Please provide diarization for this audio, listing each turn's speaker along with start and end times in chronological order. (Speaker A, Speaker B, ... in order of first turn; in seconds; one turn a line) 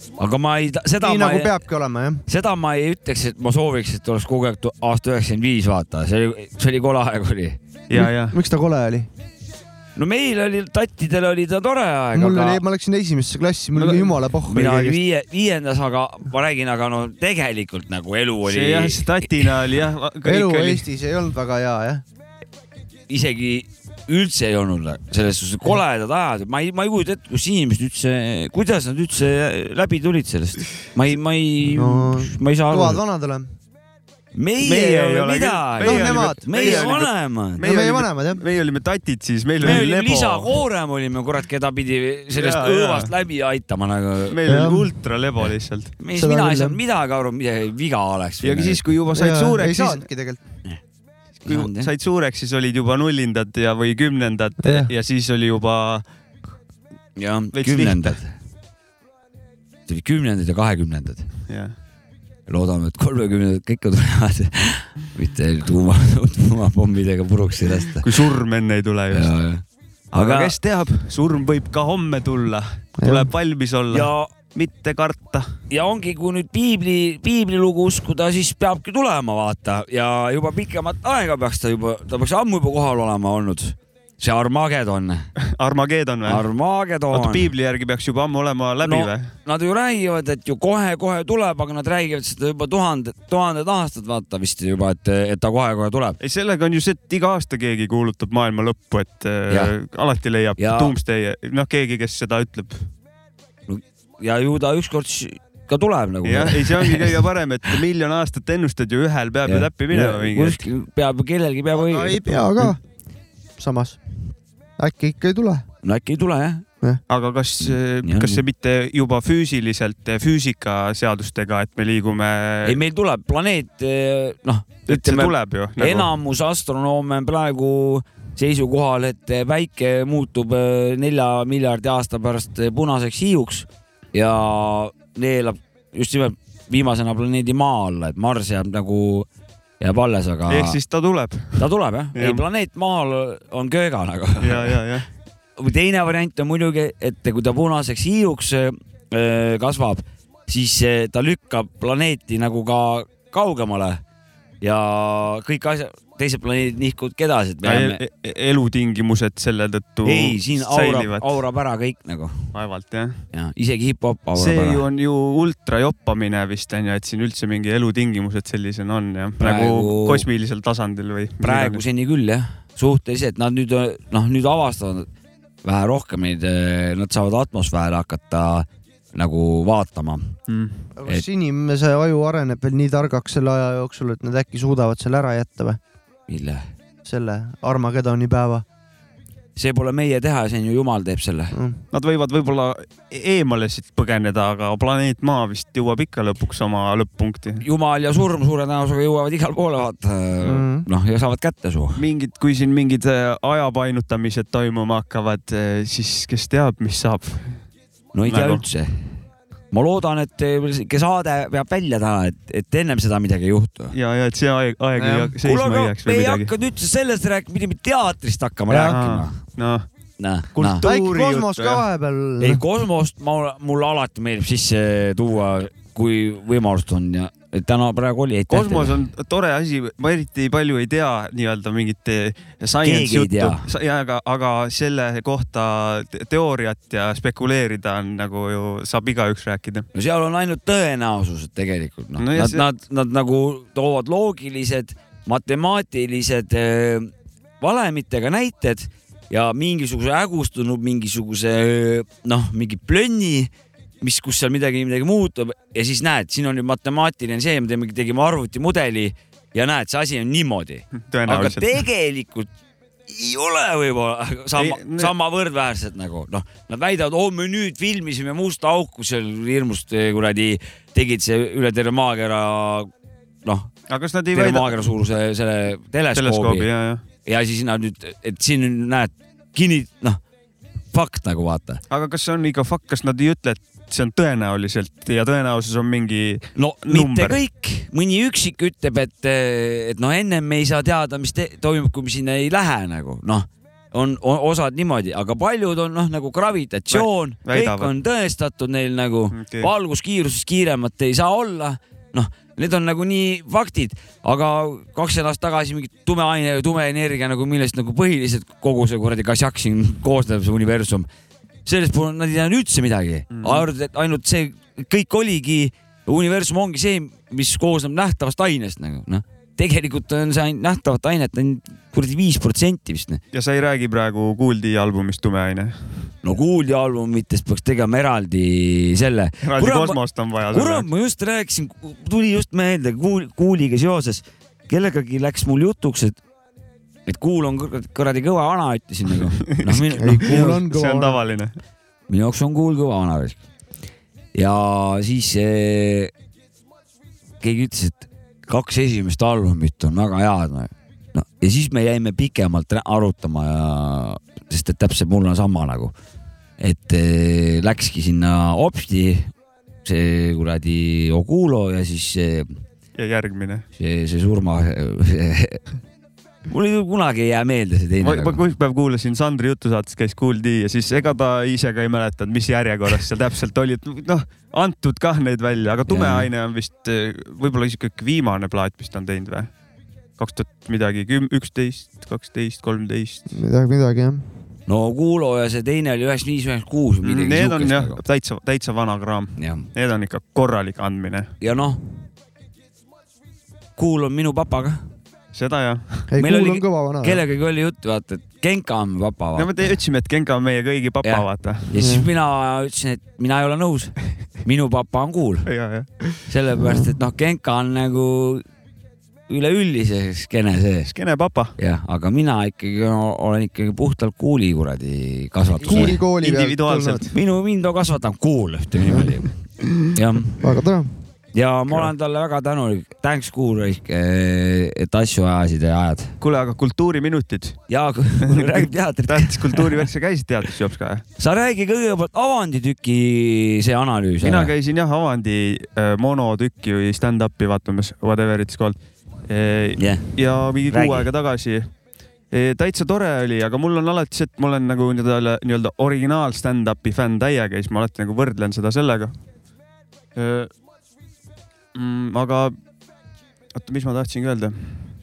Speaker A: 0.2-1.5
Speaker B: 1.0-2.2
Speaker A: 2.3-7.6
Speaker C: 7.9-8.4
Speaker B: 7.9-9.1
Speaker A: 10.0-12.6
Speaker B: 12.1-15.0
Speaker C: 13.8-14.2
Speaker A: 14.5-19.5
Speaker C: 18.4-20.8
Speaker B: 20.2-22.0
Speaker A: 23.1-33.0
Speaker B: 31.7-33.5
Speaker A: 34.4-37.6
Speaker C: 34.6-40.6
Speaker B: 35.8-37.0
Speaker B: 37.6-38.4
Speaker A: 39.6-44.4
Speaker C: 42.3-43.1
Speaker C: 44.3-45.9
Speaker B: 44.5-44.9
Speaker A: 46.0-48.8
Speaker B: 46.1-46.8
Speaker C: 48.4-50.0
Speaker B: 49.1-50.4
Speaker C: 51.5-56.0
Speaker A: 51.5-51.9
Speaker B: 54.6-54.9
Speaker A: 57.2-58.3
Speaker C: 57.5-58.2
Speaker A: 59.9-61.3
Speaker C: 61.5-61.8
Speaker A: 62.5-68.1
Speaker C: 68.0-69.3
Speaker A: 69.1-70.5
Speaker C: 70.2-75.5
Speaker B: 73.0-73.3
Speaker A: 73.9-74.3
Speaker A: 75.7-85.3
Speaker C: 85.5-86.5
Speaker A: 86.3-87.5
Speaker C: 87.1-89.3
Speaker A: 88.8-96.2
Speaker C: 96.2-102.9
Speaker A: 100.6-100.9
Speaker A: 103.7-107.2
Speaker C: 106.2-110.6
Speaker A: 109.5-112.7
Speaker B: 111.7-112.8
Speaker B: 113.6-114.0
Speaker B: 114.8-115.7
Speaker A: 115.8-116.7
Speaker C: 117.1-122.8
Speaker A: 117.6-118.4
Speaker A: 122.7-139.3
Speaker C: 124.9-126.1
Speaker A: 139.8-140.8
Speaker C: 140.5-141.6
Speaker A: 141.6-144.8
Speaker C: 142.2-142.4
Speaker C: 144.4-145.1
Speaker A: 145.6-154.0
Speaker A: 154.6-158.0
Speaker C: 157.6-161.4
Speaker A: 160.1-162.4
Speaker C: 162.5-163.2
Speaker A: 163.3-164.8
Speaker C: 164.3-171.8
Speaker A: 169.4-170.3
Speaker A: 171.4-175.1
Speaker A: 175.6-180.3
Speaker C: 180.5-180.8
Speaker B: 181.0-185.8
Speaker A: 186.3-186.7
Speaker B: 187.1-188.7
Speaker A: 189.6-191.6
Speaker B: 191.5-191.8
Speaker C: 191.9-197.6
Speaker A: 197.6-202.0
Speaker B: 200.4-200.9
Speaker C: 202.0-207.6
Speaker A: 208.1-209.0
Speaker C: 208.2-208.6
Speaker A: 209.7-213.9
Speaker C: 213.9-216.5
Speaker B: 215.0-215.3
Speaker A: 215.4-219.4
Speaker B: 218.7-219.0
Speaker C: 218.9-219.9
Speaker A: 220.2-220.8
Speaker C: 220.6-221.8
Speaker B: 220.8-222.6
Speaker A: 222.4-228.9
Speaker C: 228.5-239.9
Speaker A: 232.8-233.7
Speaker A: 239.9-262.5
Speaker C: 242.2-242.7
Speaker C: 261.0-261.8
Speaker A: 263.1-272.9
Speaker C: 264.6-265.1
Speaker A: 273.4-273.7
Speaker C: 273.9-274.7
Speaker A: 274.3-276.7
Speaker C: 276.1-277.0
Speaker A: 277.2-280.2
Speaker A: 280.9-281.8
Speaker C: 281.9-287.4
Speaker A: 286.6-311.1
Speaker C: 296.9-297.9
Speaker C: 299.3-299.7
Speaker A: 311.6-323.2
Speaker C: 313.3-313.7
Speaker C: 323.3-325.8
Speaker A: 326.2-330.0
Speaker C: 329.4-330.9
Speaker A: 330.5-336.2
Speaker A: 337.1-340.4
Speaker C: 339.5-341.6
Speaker B: 340.0-341.2
Speaker A: 342.1-343.4
Speaker A: 344.3-346.1
Speaker A: 347.4-355.9
Speaker A: 356.6-359.3
Speaker A: 359.9-362.6
Speaker C: 363.0-363.6
Speaker A: 363.8-365.6
Speaker A: 366.5-368.4
Speaker C: 368.0-379.5
Speaker A: 375.9-376.3
Speaker C: 380.2-383.3
Speaker B: 383.3-384.2
Speaker A: 384.7-388.0
Speaker C: 387.0-391.3
Speaker A: 389.4-389.7
Speaker A: 391.4-391.8
Speaker A: 393.8-394.8
Speaker C: 395.3-396.1
Speaker B: 396.1-397.2
Speaker A: 396.2-399.5
Speaker C: 399.4-401.7
Speaker A: 401.0-405.5
Speaker B: 401.8-402.1
Speaker C: 405.5-406.2
Speaker A: 406.3-408.4
Speaker B: 406.6-406.9
Speaker A: 409.3-410.9
Speaker C: 410.9-411.5
Speaker A: 411.6-416.0
Speaker C: 415.6-417.1
Speaker B: 415.6-417.1
Speaker A: 417.1-419.3
Speaker A: 419.9-420.4
Speaker B: 420.4-420.9
Speaker A: 421.3-426.1
Speaker C: 426.2-427.6
Speaker A: 427.7-429.9
Speaker C: 428.2-431.1
Speaker A: 431.2-434.5
Speaker C: 434.2-441.7
Speaker A: 439.8-440.1
Speaker A: 440.7-441.1
Speaker C: 442.3-449.1
Speaker C: 450.2-450.5
Speaker C: 451.8-452.5
Speaker C: 453.5-454.9